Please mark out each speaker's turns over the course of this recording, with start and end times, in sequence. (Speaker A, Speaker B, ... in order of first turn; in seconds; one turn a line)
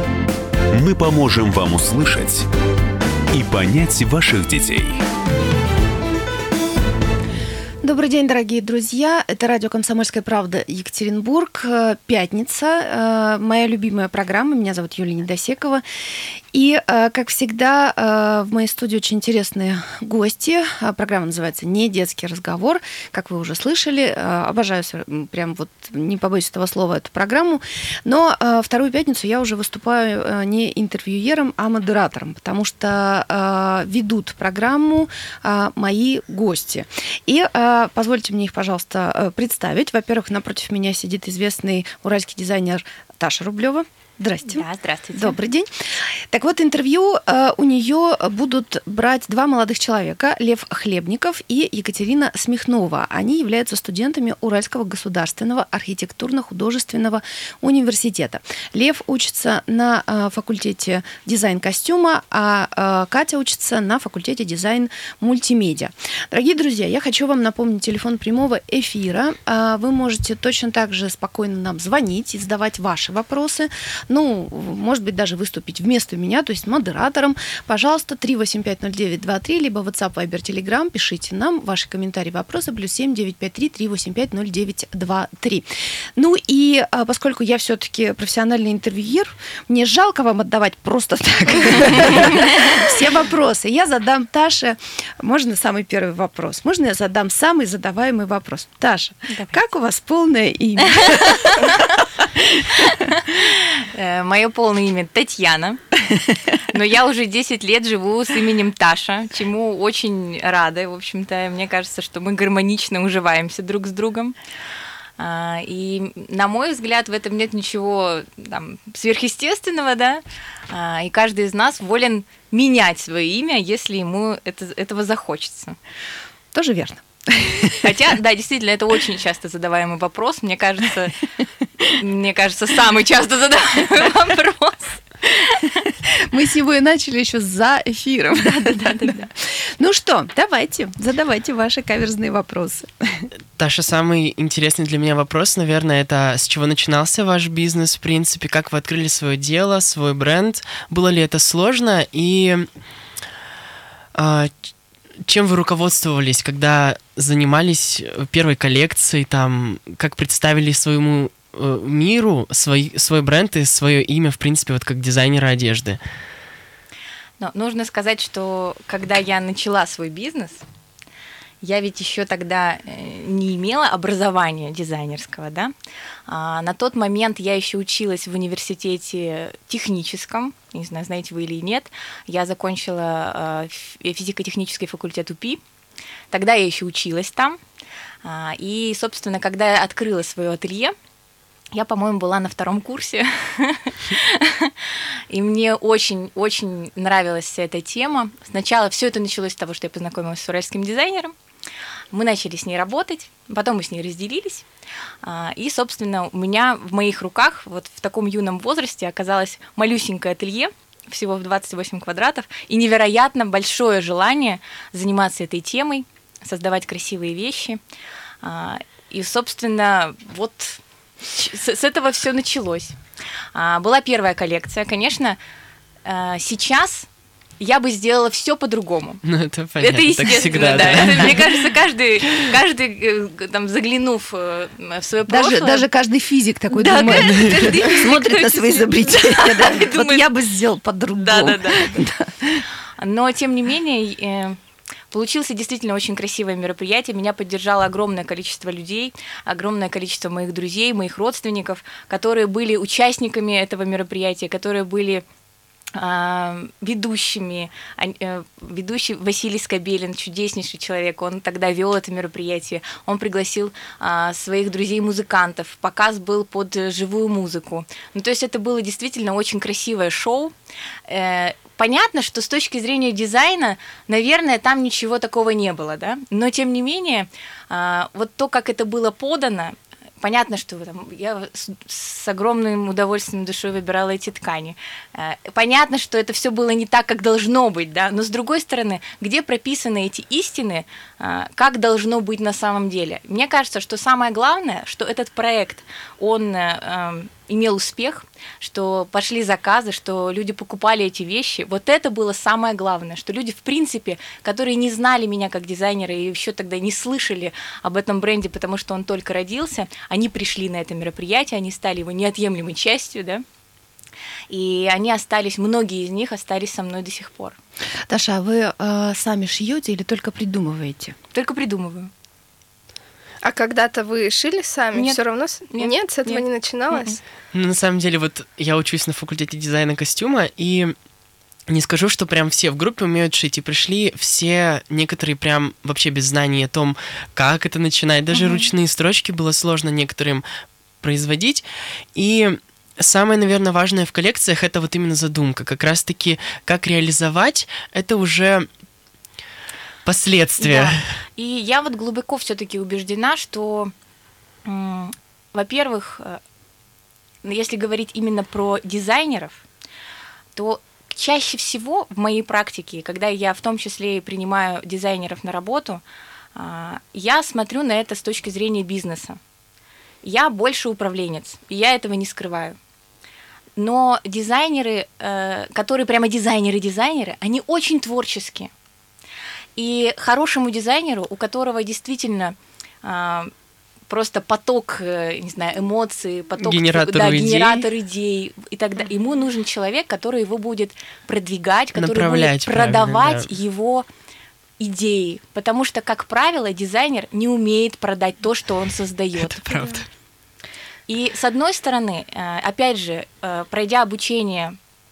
Speaker A: 0.7-2.5
Speaker A: 3.3-5.0
Speaker B: 7.8-15.8
Speaker B: 16.5-103.1
Speaker C: 44.4-45.4
Speaker C: 101.0-101.9
Speaker C: 102.8-106.0
Speaker C: 106.5-114.3
Speaker C: 115.2-125.8
Speaker B: 126.5-127.9
Speaker C: 127.8-131.2
Speaker C: 132.0-135.8
Speaker B: 135.9-143.3
Speaker C: 138.6-139.2
Speaker D: 143.6-152.7
Speaker D: 154.1-154.5
Speaker D: 155.2-166.0
Speaker C: 167.4-170.6
Speaker C: 171.6-175.7
Speaker C: 176.3-185.6
Speaker C: 186.3-187.6
Speaker C: 188.2-190.9
Speaker C: 191.7-201.3
Speaker C: 202.1-204.7
Speaker C: 205.2-217.8
Speaker C: 218.4-223.0
Speaker C: 223.5-225.4
Speaker C: 226.0-227.1
Speaker C: 227.6-229.2
Speaker D: 229.2-231.4
Speaker C: 229.8-235.8
Speaker B: 235.3-242.6
Speaker C: 236.7-240.3
Speaker C: 241.1-242.0
Speaker C: 243.0-244.6
Speaker C: 245.1-255.2
Speaker C: 255.9-270.5
Speaker C: 271.1-313.4
Speaker C: 314.5-317.6
Speaker B: 318.1-321.1
Speaker C: 321.3-322.1
Speaker E: 323.4-327.2
Speaker C: 324.9-327.1
Speaker D: 327.5-330.9
Speaker D: 331.7-340.4
Speaker D: 341.0-348.7
Speaker D: 350.0-351.0
Speaker C: 350.6-353.9
Speaker C: 354.6-356.4
Speaker C: 357.4-359.6
Speaker C: 360.5-366.0
Speaker C: 366.5-369.4
Speaker C: 370.2-372.8
Speaker C: 373.8-378.7
Speaker C: 379.8-383.5
Speaker C: 384.1-394.0
Speaker D: 386.6-387.9
Speaker D: 391.9-393.5
Speaker C: 394.8-399.6
Speaker D: 399.4-400.1
Speaker C: 401.1-404.8